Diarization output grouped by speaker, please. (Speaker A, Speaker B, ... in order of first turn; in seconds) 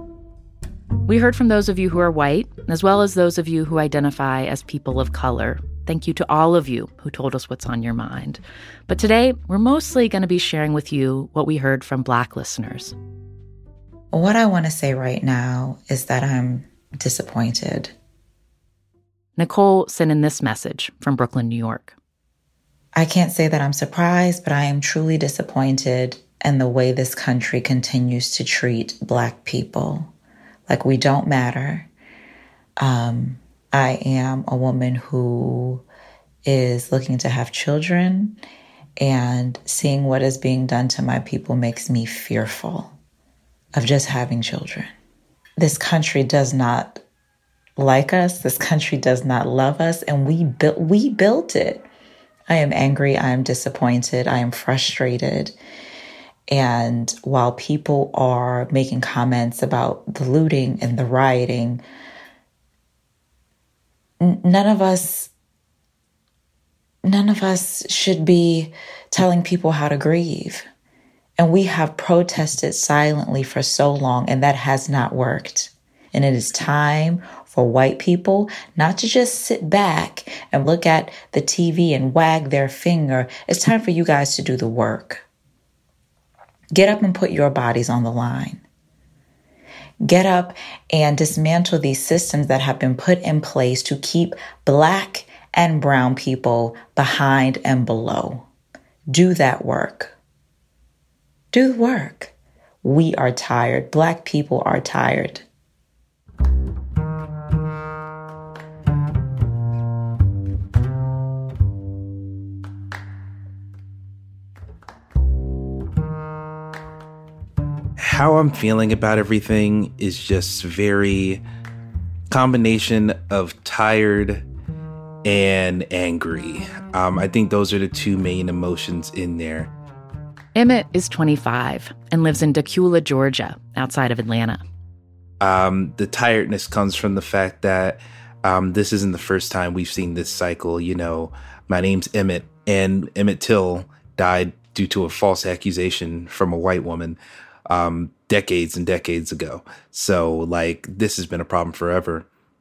Speaker A: 1.1-12.9, 19.4-21.9, 130.6-134.6
Speaker B: 14.1-17.9, 22.9-30.1, 30.7-31.9, 32.8-35.9, 36.5-38.4, 39.0-42.9, 43.7-44.9, 45.6-47.0, 47.8-51.9, 52.5-55.6, 56.5-61.8, 64.2-65.3, 67.0-70.7, 71.4-85.2, 86.7-88.6, 90.0-98.5, 99.1-100.1, 101.5-105.5
Speaker C: 118.0-121.4, 122.3-124.4, 125.2-129.7, 135.4-152.3